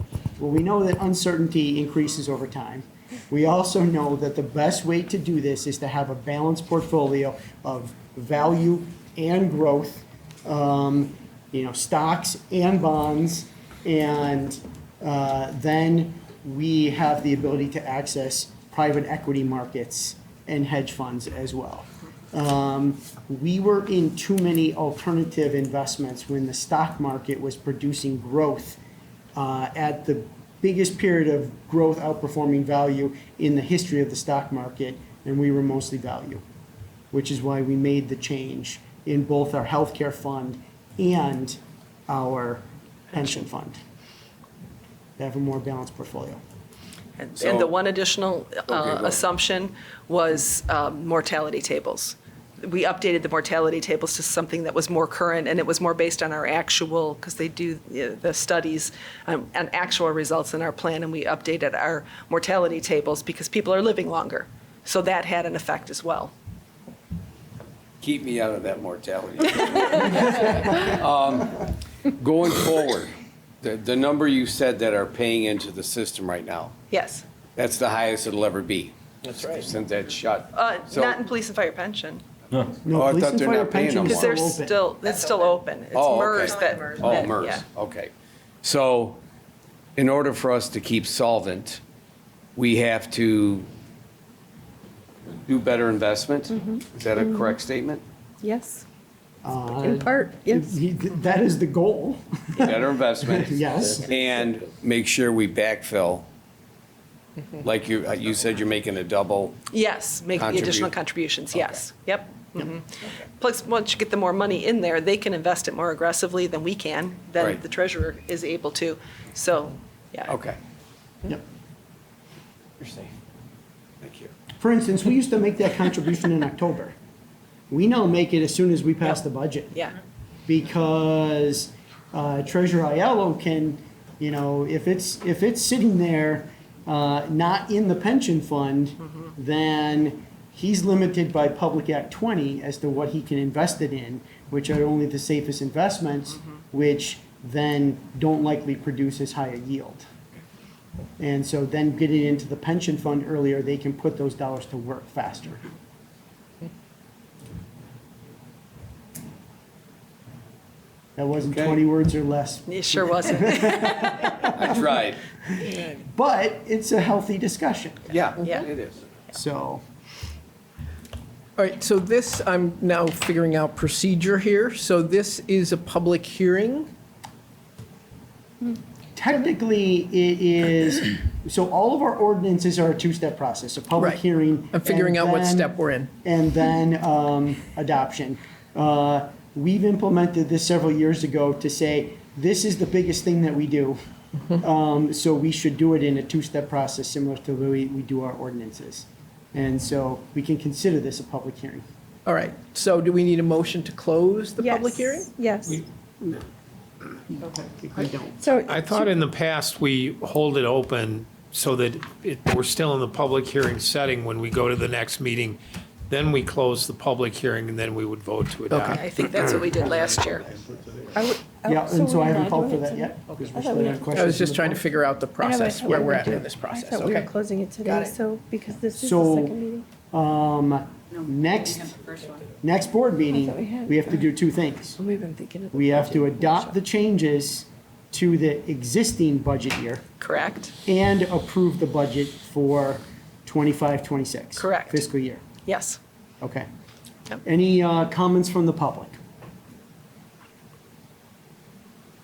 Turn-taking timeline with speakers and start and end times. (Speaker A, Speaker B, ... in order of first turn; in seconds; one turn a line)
Speaker A: 0.4-28.8
Speaker A: 29.3-36.4
Speaker A: 37.1-41.6
Speaker A: 42.1-43.8
Speaker A: 45.2-46.4
Speaker B: 47.2-66.3
Speaker C: 47.4-47.8
Speaker C: 48.8-49.1
Speaker C: 68.0-76.7
Speaker B: 76.9-77.2
Speaker C: 77.5-81.2
Speaker D: 79.3-79.5
Speaker B: 80.5-82.2
Speaker A: 82.8-84.8
Speaker C: 82.9-84.3
Speaker B: 84.0-87.6
Speaker C: 85.9-88.1
Speaker C: 88.6-89.2
Speaker C: 90.0-91.8
Speaker C: 92.5-93.7
Speaker C: 95.4-98.0
Speaker E: 96.7-97.5
Speaker E: 98.4-98.8
Speaker A: 99.4-104.1
Speaker E: 99.8-100.8
Speaker C: 102.6-106.2
Speaker C: 107.6-109.6
Speaker B: 109.7-112.8
Speaker C: 110.3-111.0
Speaker B: 113.4-120.3
Speaker C: 120.3-120.6
Speaker C: 124.0-124.3
Speaker A: 124.6-126.9
Speaker A: 127.7-129.7
Speaker A: 130.4-150.1
Speaker A: 151.2-155.6
Speaker A: 161.2-164.8
Speaker C: 161.5-161.8
Speaker B: 162.7-164.4
Speaker C: 164.6-165.2
Speaker A: 165.4-168.2
Speaker C: 168.1-169.0
Speaker B: 168.4-168.7
Speaker A: 169.3-169.8
Speaker D: 171.6-176.9
Speaker A: 179.1-194.0
Speaker D: 184.7-186.1
Speaker A: 194.5-201.8
Speaker D: 202.2-205.3
Speaker E: 204.6-205.8
Speaker A: 207.3-208.4
Speaker E: 208.4-209.1
Speaker F: 208.6-219.1
Speaker D: 218.7-219.0
Speaker B: 218.9-220.4
Speaker E: 221.1-224.1
Speaker A: 221.6-224.8
Speaker D: 224.1-227.3
Speaker E: 225.4-229.8
Speaker B: 227.8-228.1
Speaker A: 228.9-229.6
Speaker A: 230.1-232.0
Speaker A: 232.6-235.0
Speaker E: 233.3-234.2
Speaker E: 235.0-236.7
Speaker A: 235.7-240.0
Speaker B: 240.2-240.7
Speaker A: 240.8-245.4
Speaker B: 244.6-245.1
Speaker B: 245.6-246.0
Speaker A: 246.4-246.7
Speaker A: 247.4-249.2